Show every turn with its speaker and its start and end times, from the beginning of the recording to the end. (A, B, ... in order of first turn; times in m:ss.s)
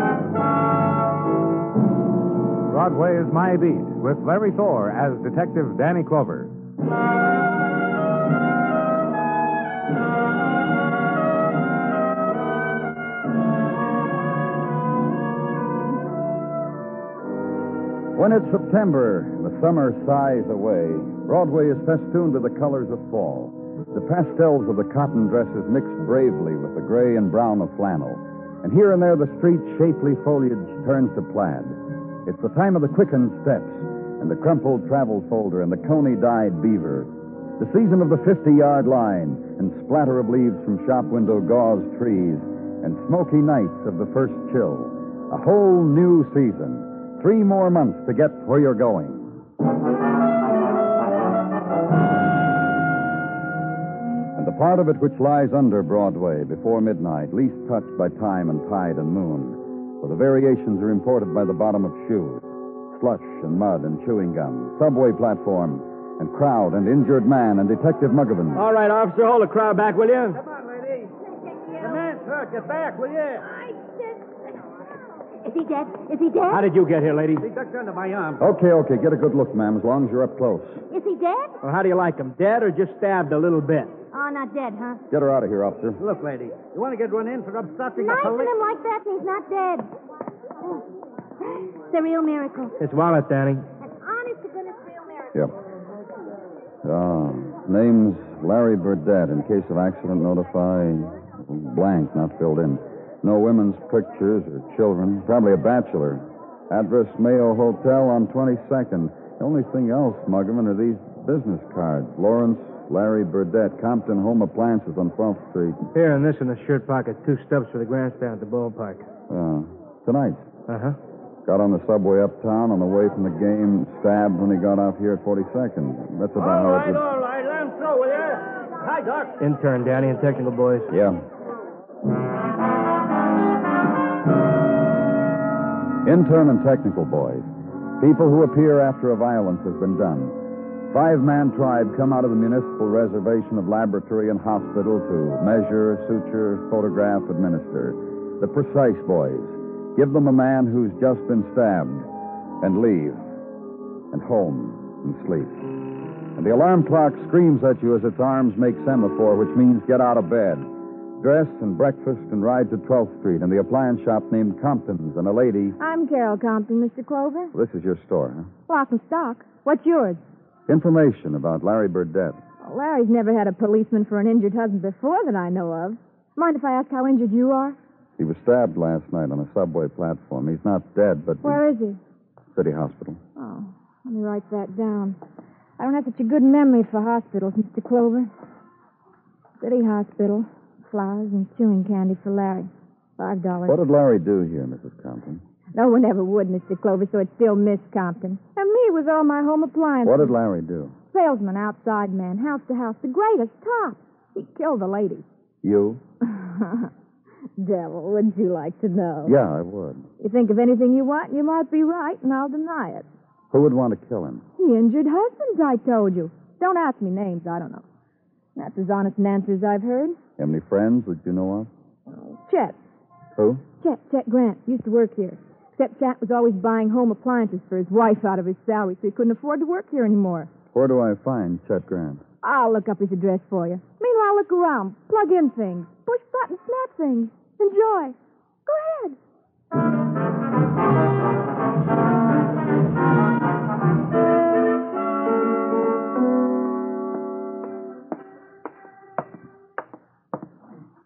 0:02.7-0:06.5 A
0:18.1-0:49.4 B
0:54.4-1:08.6 B
1:08.5-1:10.4 C
1:10.3-1:11.1 D
1:11.8-1:13.4 D
1:15.4-1:16.6 E
1:16.5-1:17.4 C
1:17.4-1:18.4 D
1:18.4-1:20.8 B
1:20.9-1:21.6 E
1:21.6-1:24.0 C
1:24.1-1:25.0 E
1:25.1-1:26.0 B
1:26.0-1:28.5 D
1:28.0-1:29.9 E
1:31.9-1:32.7 E
1:32.8-1:33.7 C
1:33.8-1:34.9 E
1:36.8-1:55.8 B
1:55.9-1:59.1 C
1:59.3-2:00.4 B
2:00.7-2:01.0 C
2:01.4-2:07.0 B
2:06.4-2:09.3 D
2:09.4-2:10.9 C
2:10.9-2:11.2 B
2:16.0-2:17.5 B
2:18.0-2:20.4 B
2:20.9-2:32.1 B
2:32.6-2:33.2 B
2:34.1-2:35.6 B
2:36.4-2:40.7 B
2:41.2-2:45.8 B
2:45.8-2:47.5 F
2:47.5-2:48.5 B
2:48.7-2:50.2 F
2:50.7-2:52.4 B
2:52.6-2:57.8 F
2:58.2-3:01.6 B
3:01.4-3:02.0 F
3:02.5-3:03.2 B
3:03.4-3:05.2 F
3:05.8-3:08.3 F
3:09.6-3:13.8 F
3:13.6-3:15.4 B
3:15.7-3:20.3 F
3:20.0-3:20.9 B
3:21.1-3:25.2 F
3:25.6-3:26.0 B
3:26.3-3:26.9 F
3:27.6-3:29.4 F
3:29.2-3:30.1 B
3:30.2-3:33.1 F
3:33.5-3:34.4 B
3:34.6-3:37.8 F
3:38.6-3:40.2 F
3:40.4-3:41.7 B
3:42.1-3:42.8 F
3:43.3-3:43.6 B
3:43.8-3:50.5 F
3:50.7-3:52.2 B
3:52.4-3:58.1 F
3:58.6-3:59.2 F